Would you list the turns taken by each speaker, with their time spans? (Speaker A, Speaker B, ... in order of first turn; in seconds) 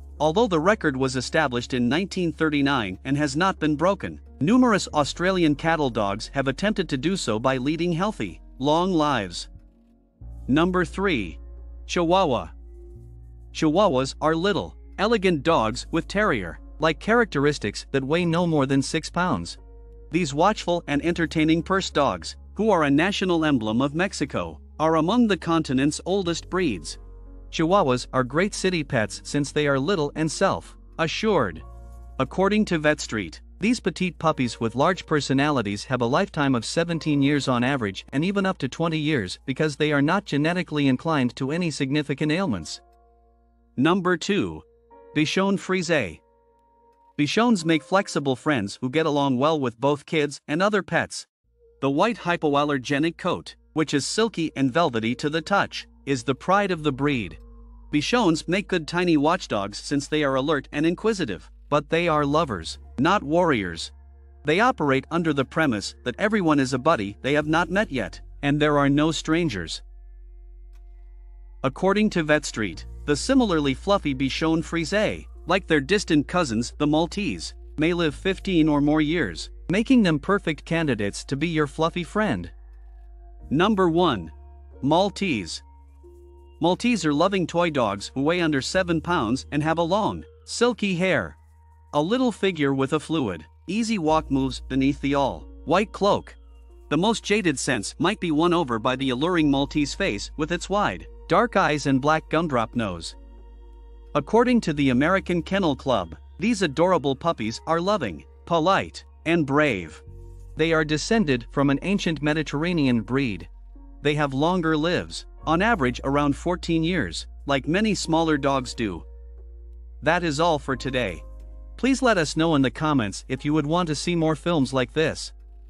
Speaker A: 0.2-9.5, 10.5-12.5, 13.5-19.6, 20.1-27.0, 27.5-31.6, 32.2-42.8, 43.8-46.2, 47.2-51.3, 51.8-57.4, 57.9-63.9, 64.4-69.8, 71.6-82.5, 83.5-85.6, 86.6-91.4, 91.9-96.4, 96.9-103.2, 104.1-110.0, 110.5-113.5, 114.0-119.0, 120.0-121.2, 121.8-125.3